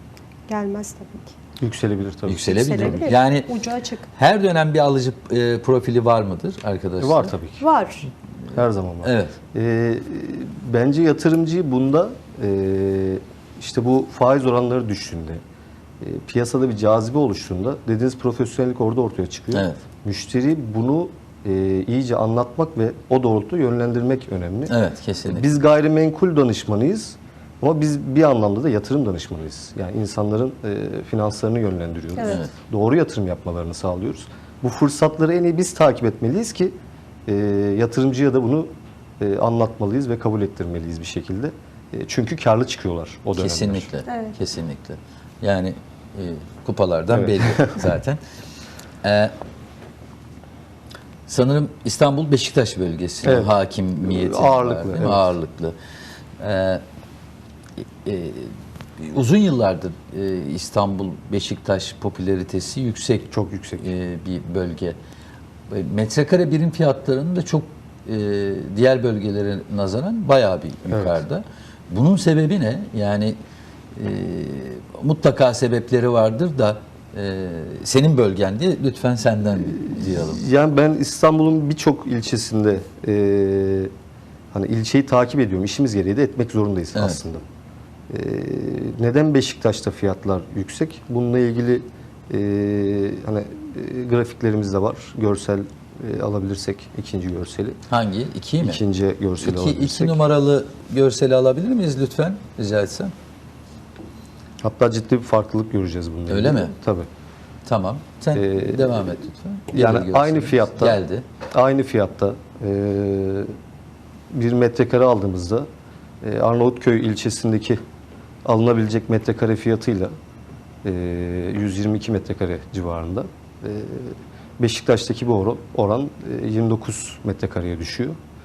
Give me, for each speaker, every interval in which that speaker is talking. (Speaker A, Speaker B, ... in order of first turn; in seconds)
Speaker A: 0.5-1.3, 2.5-4.1, 7.6-8.1, 44.1-44.3
Speaker B: 1.6-3.1, 7.0-7.7, 8.5-15.4, 16.0-24.7, 25.3-36.7, 37.2-43.9, 47.1-47.8, 53.2-55.3, 63.3-63.9, 70.9-71.2, 79.5-83.9, 84.5-87.4, 88.1-97.8, 98.6-100.2, 104.6-107.1, 108.3-109.2, 109.7-111.0, 111.5-113.5, 114.3-115.7, 116.2-117.8, 118.4-120.1, 120.8-128.2
Speaker C: 2.2-3.5, 4.1-7.3, 9.0-9.3, 19.5-19.8, 24.7-25.4, 32.2-32.5, 43.4-48.2, 49.0-49.3, 51.3-55.8, 56.4-56.8, 58.0-65.0, 65.7-73.4, 73.9-80.4, 86.9-87.2, 97.9-98.8, 99.4-103.1, 106.3-106.7, 107.7-111.2